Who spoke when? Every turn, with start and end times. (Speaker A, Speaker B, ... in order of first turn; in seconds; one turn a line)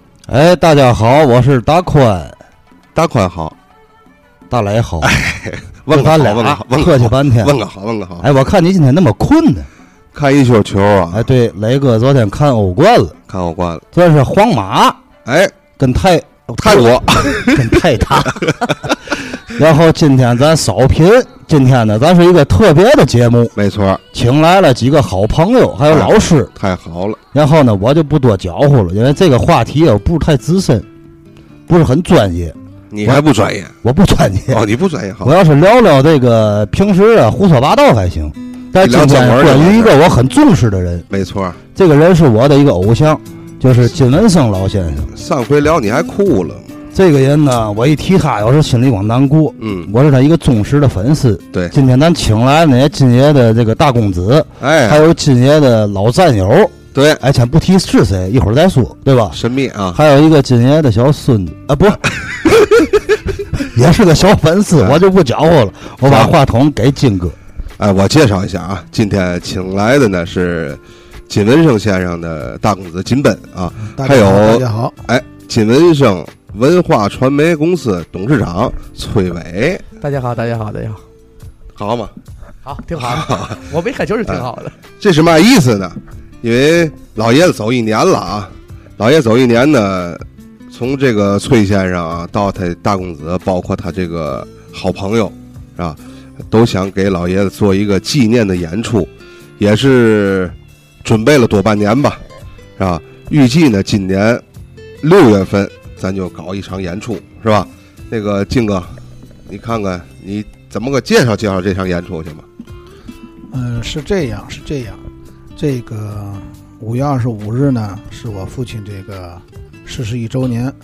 Speaker A: 0.3-2.4
Speaker B: 3.0-3.5
Speaker A: 4.5-5.1
Speaker B: 5.0-8.3
Speaker A: 5.9-7.6
Speaker A: 8.2-9.7
Speaker B: 10.1-11.3
Speaker A: 11.1-13.2
Speaker B: 13.3-13.8
Speaker A: 13.9-15.0
Speaker B: 15.2-15.6
Speaker A: 15.8-18.6
Speaker B: 16.6-17.7
Speaker A: 19.4-23.5
Speaker B: 23.6-24.0
Speaker A: 24.1-26.5
Speaker B: 25.9-27.2
Speaker A: 27.3-30.9
Speaker A: 31.7-33.2
Speaker B: 32.9-33.8
Speaker A: 33.8-34.6
Speaker B: 34.5-35.4
Speaker A: 35.2-41.1
Speaker B: 38.8-40.0
Speaker B: 41.1-41.6
Speaker A: 41.7-45.1
Speaker B: 45.1-46.7
Speaker A: 46.9-59.4
Speaker B: 49.6-49.9
Speaker B: 54.6-55.1
Speaker B: 56.9-57.2
Speaker B: 59.3-60.0
Speaker A: 59.9-62.6
Speaker A: 63.7-67.4
Speaker B: 66.0-66.4
Speaker B: 67.8-79.9
Speaker C: 73.9-75.0
Speaker D: 80.0-81.0
Speaker B: 81.8-82.1
Speaker D: 82.7-84.8
Speaker B: 83.0-83.6
Speaker B: 85.0-96.0
Speaker B: 96.5-102.2
Speaker B: 102.8-104.4
Speaker B: 105.0-109.0
Speaker B: 109.5-112.5
Speaker C: 113.5-115.0
Speaker C: 115.6-120.8